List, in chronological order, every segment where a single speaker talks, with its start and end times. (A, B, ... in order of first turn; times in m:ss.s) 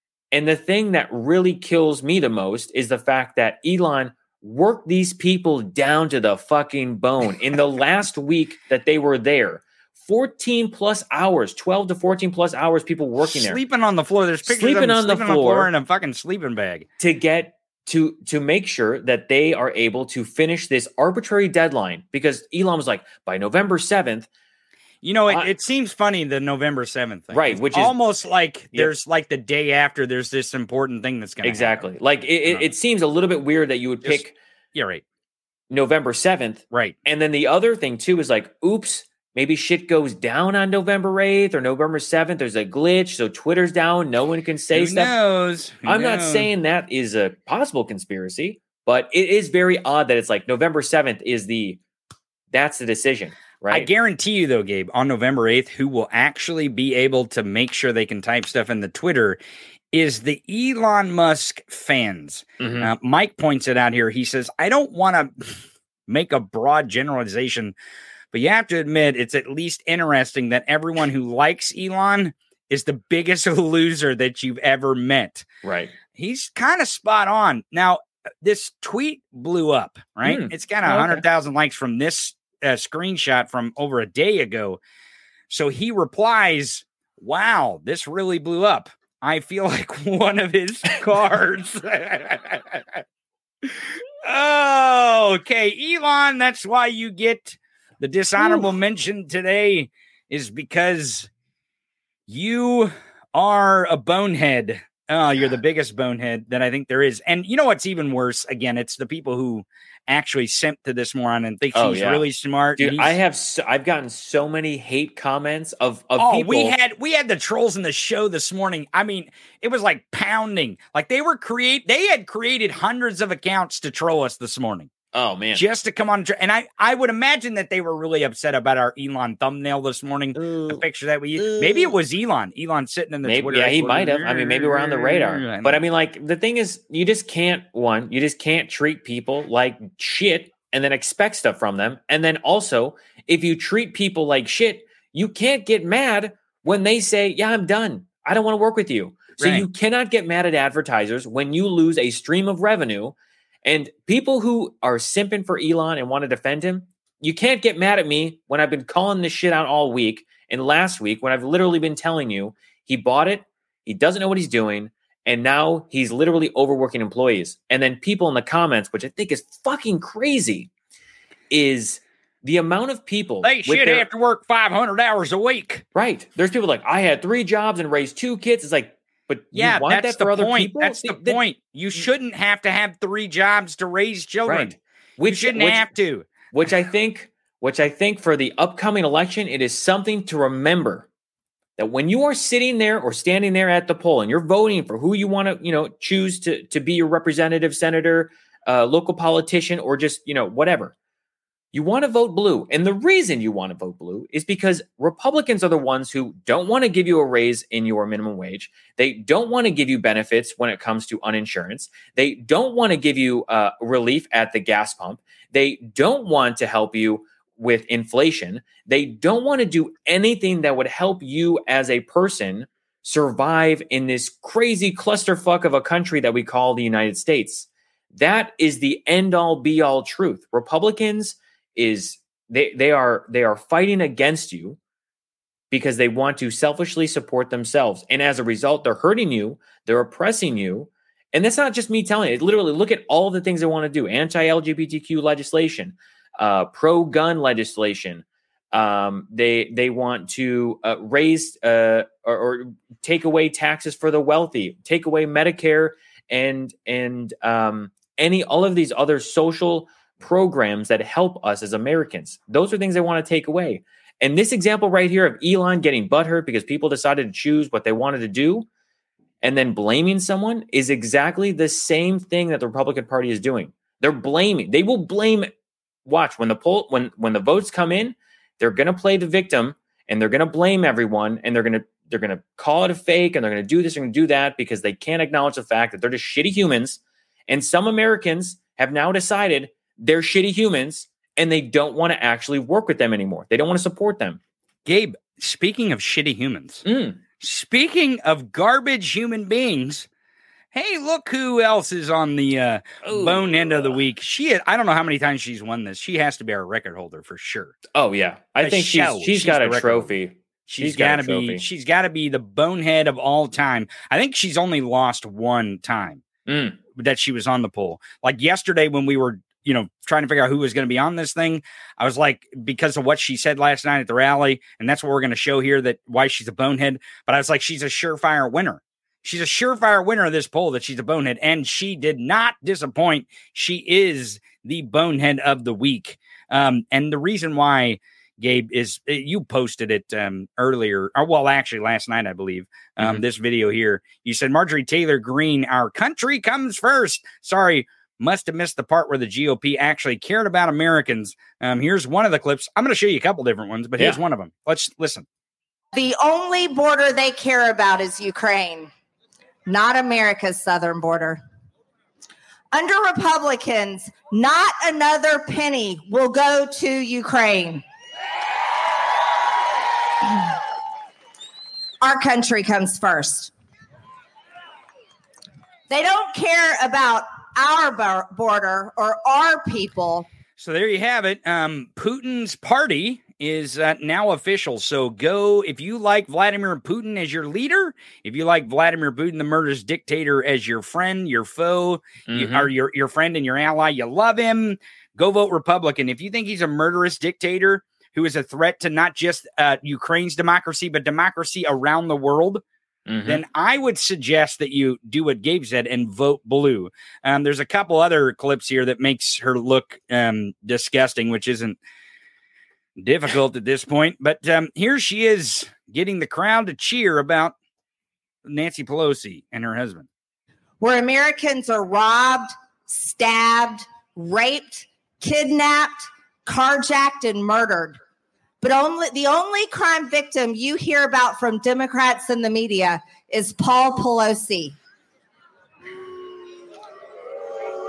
0:00.3-0:13.6 A
0:13.2-0:16.9 B
0:14.4-0:15.7 A
0:17.0-0:24.3 A
0:25.0-0:31.8 B
0:27.3-0:28.0 A
0:31.4-0:34.3 A
0:34.7-0:35.0 B
0:35.7-0:45.2 A
0:44.7-0:46.5 B
0:45.8-0:51.8 A
0:52.5-0:53.9 A
0:53.7-0:59.4 B
0:59.9-1:07.7 B
1:02.6-1:02.9 A
1:08.3-1:15.4 B
1:15.6-1:15.9 A
1:16.1-1:24.8 B
1:20.2-1:21.2 A
1:25.5-1:33.0 B
1:33.6-1:41.3 B
1:38.4-1:38.7 A
1:42.3-1:53.2 B
1:51.7-1:52.2 A
1:52.8-1:56.8 A
1:56.2-2:04.9 B
2:05.1-2:05.6 A
2:05.5-2:15.8 B
2:10.3-2:10.8 A
2:11.4-2:12.0 A
2:13.2-2:50.7 A
2:29.4-2:29.6 B
2:51.5-2:54.1 A
2:53.4-2:55.8 B
2:55.9-3:01.4 A
2:59.5-3:04.8 B
3:04.5-3:05.9 A
3:05.3-3:06.3 B
3:06.5-3:11.1 A
3:11.8-3:20.9 A
3:21.7-3:54.8 A
3:55.7-4:28.7 A
4:29.4-4:35.5 A
4:36.0-4:54.4 A
4:54.8-4:56.8 B
4:56.8-4:57.2 A
4:57.4-5:00.1 B
5:00.7-5:07.7 B
5:03.0-5:04.0 A
5:07.9-5:11.6 A
5:08.6-5:10.1 B
5:10.7-5:16.2 B
5:16.5-5:16.8 A
5:17.0-5:55.2 B
5:55.9-5:58.9 C
5:59.6-6:01.4 C
6:02.7-6:07.8 C
6:12.0-6:13.5 C
6:15.9-6:20.3 C
6:20.6-6:42.6 B
6:32.3-6:32.7 A
6:43.1-6:43.4 A
6:43.3-6:51.8 B
6:53.0-6:57.5 B
6:58.4-7:00.1 B
7:00.8-7:08.0 C
7:08.6-7:14.8 C